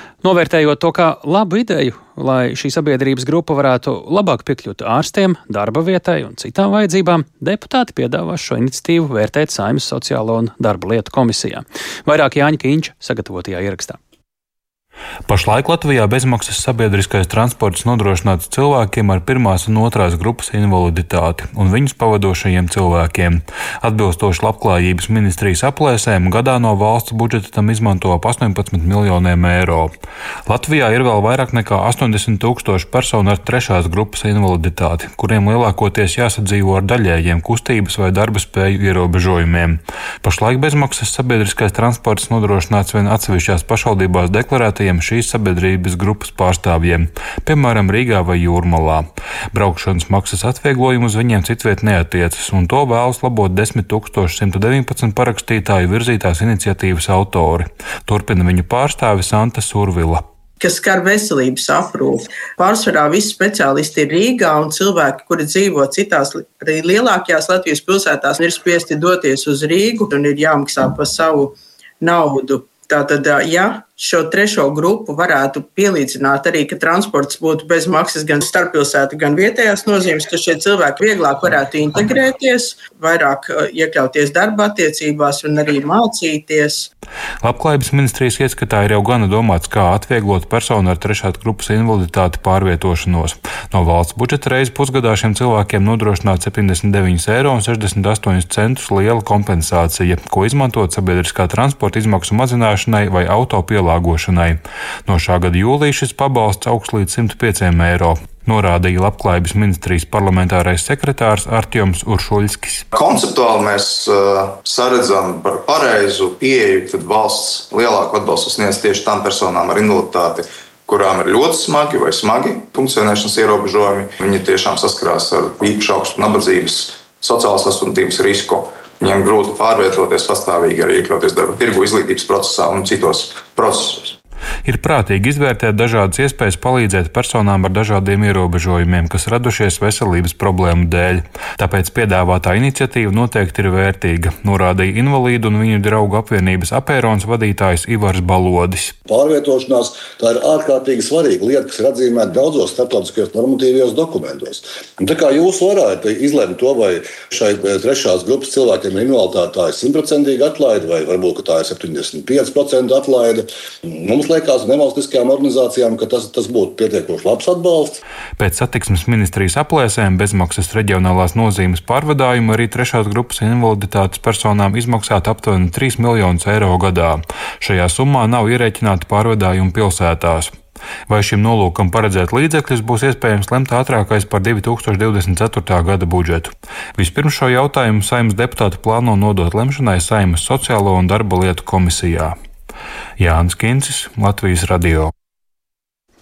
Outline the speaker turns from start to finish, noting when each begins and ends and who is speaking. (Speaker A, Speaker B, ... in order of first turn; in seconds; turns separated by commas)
Speaker A: 0.2-14.0, Speaker B: 15.3-29.9, Speaker B: 30.5-60.2, Speaker C: 60.6-86.9, Speaker B: 87.4-112.8, Speaker D: 112.9-134.1, Speaker B: 134.6-148.9, Speaker E: 149.1-168.0, Speaker B: 168.4-180.5, Speaker B: 181.1-192.3, Speaker B: 193.2-195.1